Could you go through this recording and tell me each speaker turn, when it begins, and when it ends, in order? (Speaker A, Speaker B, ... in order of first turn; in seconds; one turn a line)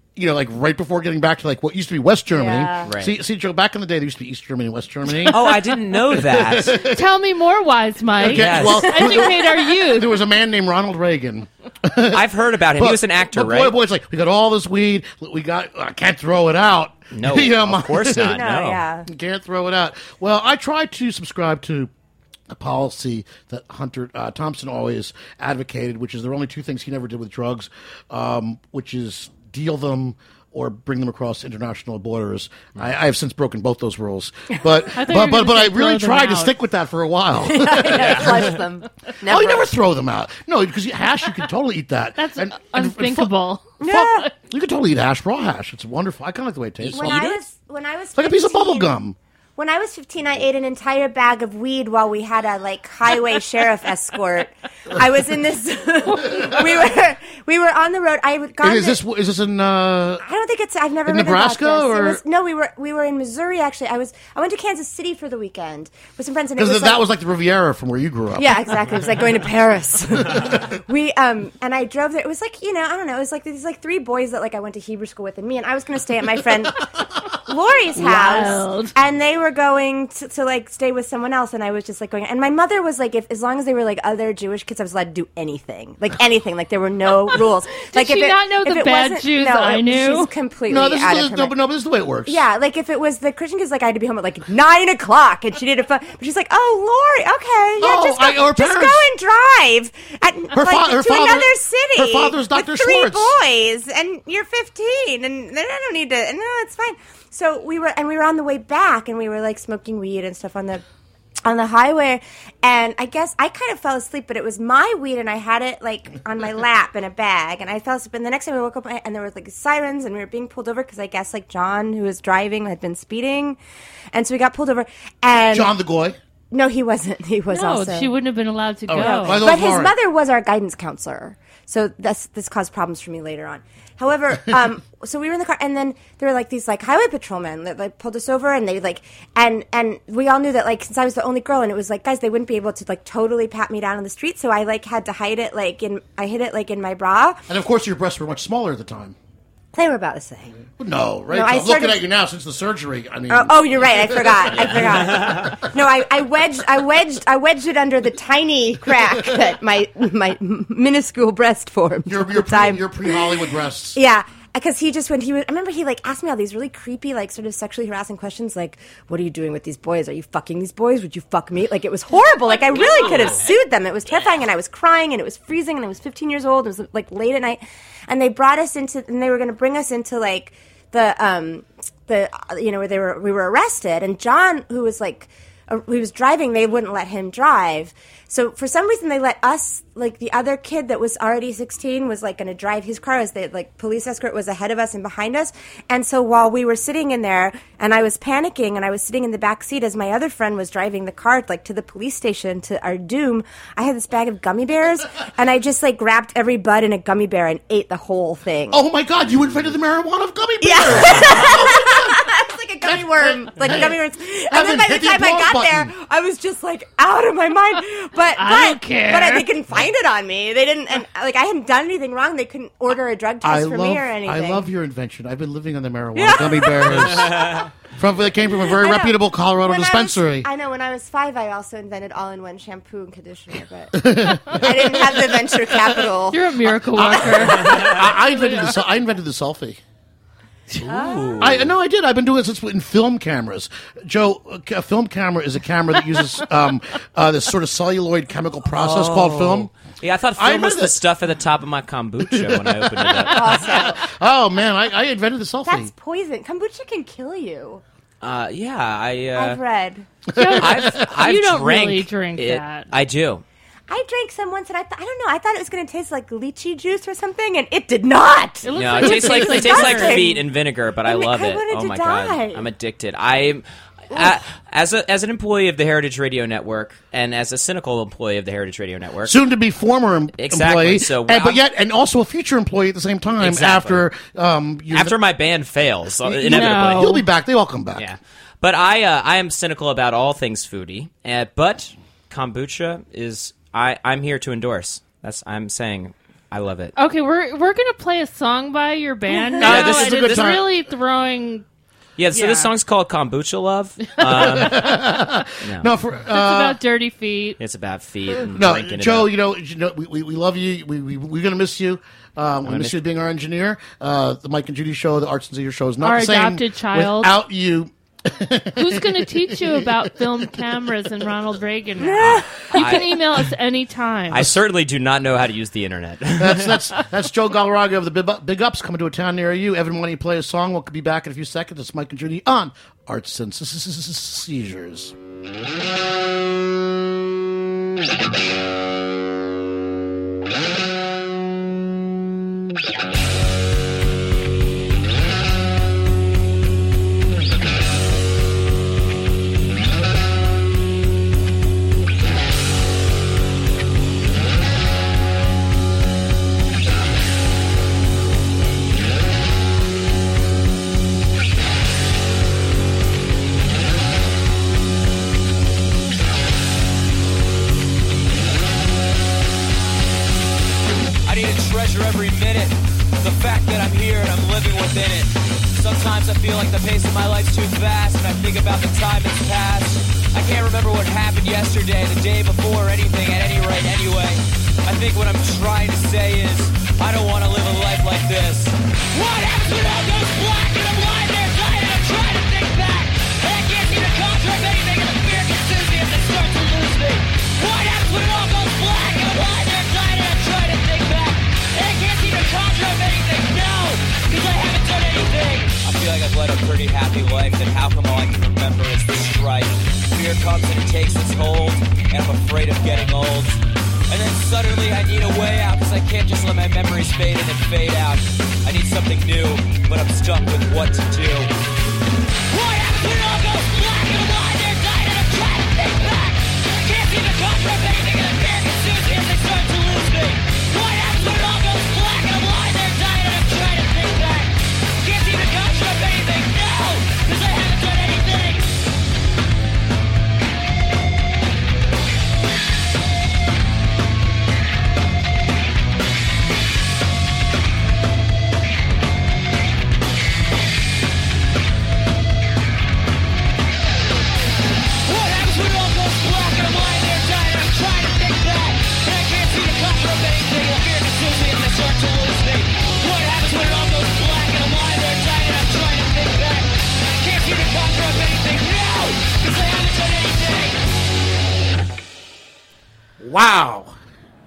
Speaker A: 0.2-7.0
Speaker B: 2.3-2.9
Speaker C: 2.9-3.1
Speaker C: 5.2-6.8
Speaker D: 6.8-10.1
Speaker A: 8.2-18.4
Speaker C: 8.3-9.1
Speaker C: 12.1-13.8
Speaker C: 17.1-18.8
Speaker B: 18.3-19.1
Speaker A: 19.1-21.9
Speaker A: 22.5-38.6
Speaker D: 34.9-36.5
Speaker B: 37.4-39.7
Speaker C: 37.9-38.6
Speaker A: 39.3-47.5
Speaker D: 42.2-44.3
Speaker B: 43.8-44.2
Speaker C: 46.8-47.3
Speaker B: 46.9-48.9
Speaker A: 48.1-49.2
Speaker B: 49.6-59.0
Speaker A: 58.6-60.2
Speaker B: 60.2-67.0
Speaker A: 61.0-62.2
Speaker A: 66.6-68.8
Speaker B: 68.4-91.5
Speaker A: 70.3-70.6
Speaker D: 78.0-78.9
Speaker D: 87.9-90.3
Speaker A: 90.7-92.4
Speaker B: 92.3-110.8
Speaker A: 97.8-99.1
Speaker A: 100.5-103.3
Speaker B: 111.5-123.6
Speaker B: 124.1-125.7
Speaker A: 125.5-126.2
Speaker B: 126.5-128.1
Speaker D: 127.5-129.4
Speaker A: 128.9-129.9
Speaker B: 129.0-147.4
Speaker A: 147.5-149.2
Speaker B: 149.7-150.6
Speaker A: 150.8-155.6
Speaker B: 151.3-152.0
Speaker B: 153.3-163.4
Speaker C: 154.5-155.5
Speaker A: 162.1-164.0
Speaker B: 163.9-208.8
Speaker C: 172.6-173.5
Speaker A: 208.7-212.2
Speaker B: 210.6-224.7
Speaker A: 212.8-214.0
Speaker A: 214.5-215.9
Speaker D: 218.4-219.5
Speaker A: 223.4-230.5
Speaker B: 226.2-227.7
Speaker B: 228.5-236.5
Speaker A: 233.9-236.0
Speaker D: 236.3-238.6
Speaker A: 236.7-239.8
Speaker B: 237.0-237.9
Speaker B: 240.8-241.6
Speaker C: 240.8-241.7
Speaker A: 241.4-249.7
Speaker C: 248.8-253.8
Speaker A: 250.4-251.0
Speaker A: 252.2-255.9
Speaker B: 253.3-254.0
Speaker B: 255.7-257.8
Speaker C: 258.2-259.6
Speaker B: 259.4-260.1
Speaker A: 260.3-261.1
Speaker D: 260.4-262.9
Speaker C: 260.6-263.4
Speaker B: 263.9-270.5
Speaker D: 268.6-270.4
Speaker C: 268.7-279.4
Speaker B: 271.1-272.7
Speaker A: 279.2-285.2
Speaker C: 280.4-281.6
Speaker C: 283.4-284.1
Speaker C: 284.9-287.1
Speaker A: 286.2-288.1
Speaker D: 286.5-287.3
Speaker C: 288.0-296.9
Speaker D: 297.0-301.6
Speaker A: 299.6-300.8
Speaker C: 299.6-300.5
Speaker C: 302.2-305.0
Speaker D: 302.3-302.7
Speaker A: 304.2-306.8
Speaker C: 305.6-305.9
Speaker D: 306.3-307.6
Speaker C: 307.6-309.3
Speaker A: 308.5-320.7
Speaker C: 312.7-313.0
Speaker D: 316.0-317.4
Speaker D: 318.8-324.5
Speaker B: 322.0-322.8
Speaker C: 322.1-323.4
Speaker C: 324.3-326.9
Speaker A: 326.4-335.1
Speaker E: 371.2-421.5
Speaker E: 422.5-438.8
Speaker E: 455.0-470.8
Speaker A: 473.2-473.9